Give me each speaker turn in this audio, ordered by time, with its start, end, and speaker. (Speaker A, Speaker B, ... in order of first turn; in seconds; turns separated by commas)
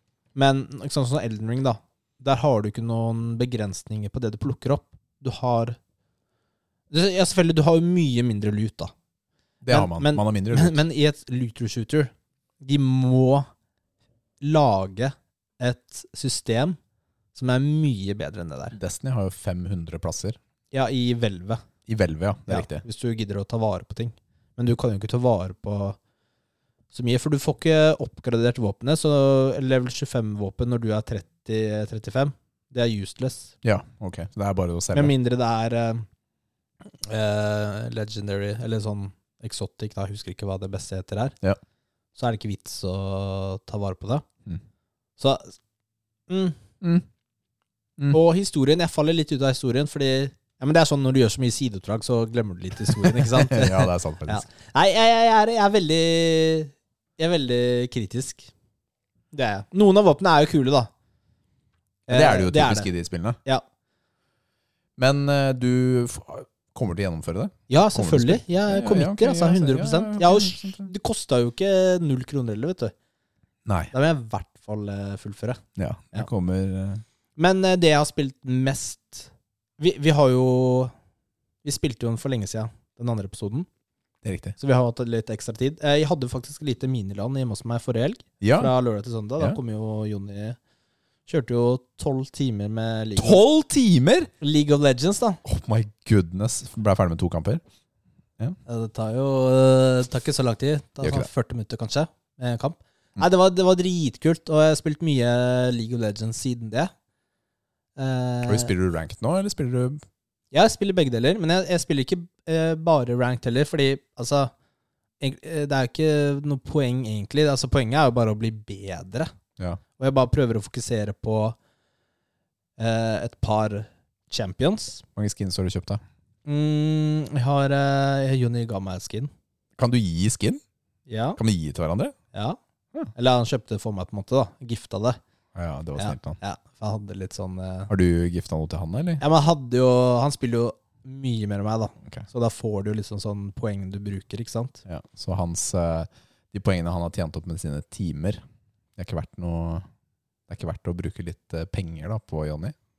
Speaker A: 0.3-5.8, Speaker A: 6.9-8.9, Speaker B: 9.6-10.8, Speaker A: 9.7-13.5, Speaker A: 14.4-16.8, Speaker A: 17.4-18.8, Speaker B: 18.7-20.4, Speaker A: 20.7-21.6, Speaker B: 21.9-22.9, Speaker A: 22.5-26.0, Speaker A: 26.9-33.5, Speaker B: 33.6-35.1, Speaker A: 34.9-36.1, Speaker A: 37.0-41.4, Speaker A: 42.1-44.3, Speaker A: 45.2-45.6, Speaker A: 46.3-46.6, Speaker A: 48.1-58.5, Speaker B: 52.9-54.5, Speaker A: 59.3-60.9, Speaker A: 62.1-62.9, Speaker B: 62.1-63.4, Speaker B: 65.0-70.9, Speaker A: 67.7-72.9, Speaker B: 73.7-73.9, Speaker A: 73.9-75.6, Speaker B: 75.8-77.0, Speaker A: 77.4-80.9, Speaker A: 81.6-83.7, Speaker B: 84.2-84.6, Speaker A: 84.6-90.6, Speaker B: 88.4-88.7, Speaker A: 91.3-93.4, Speaker B: 93.2-94.3, Speaker A: 94.4-95.4, Speaker B: 95.5-97.6, Speaker A: 98.7-106.9, Speaker B: 101.0-101.3, Speaker A: 108.0-108.7, Speaker B: 108.5-110.0, Speaker A: 110.5-114.5, Speaker A: 115.2-119.3, Speaker A: 120.0-121.6, Speaker A: 122.8-125.0, Speaker B: 125.2-126.0, Speaker A: 126.5-129.3, Speaker B: 129.8-130.6, Speaker A: 131.1-131.4, Speaker B: 131.4-132.2, Speaker A: 132.3-132.6, Speaker A: 133.2-135.2, Speaker B: 135.6-136.4, Speaker A: 136.0-137.9, Speaker B: 137.9-139.2, Speaker A: 139.2-144.8, Speaker B: 144.9-148.4, Speaker B: 149.0-149.9, Speaker B: 150.5-152.8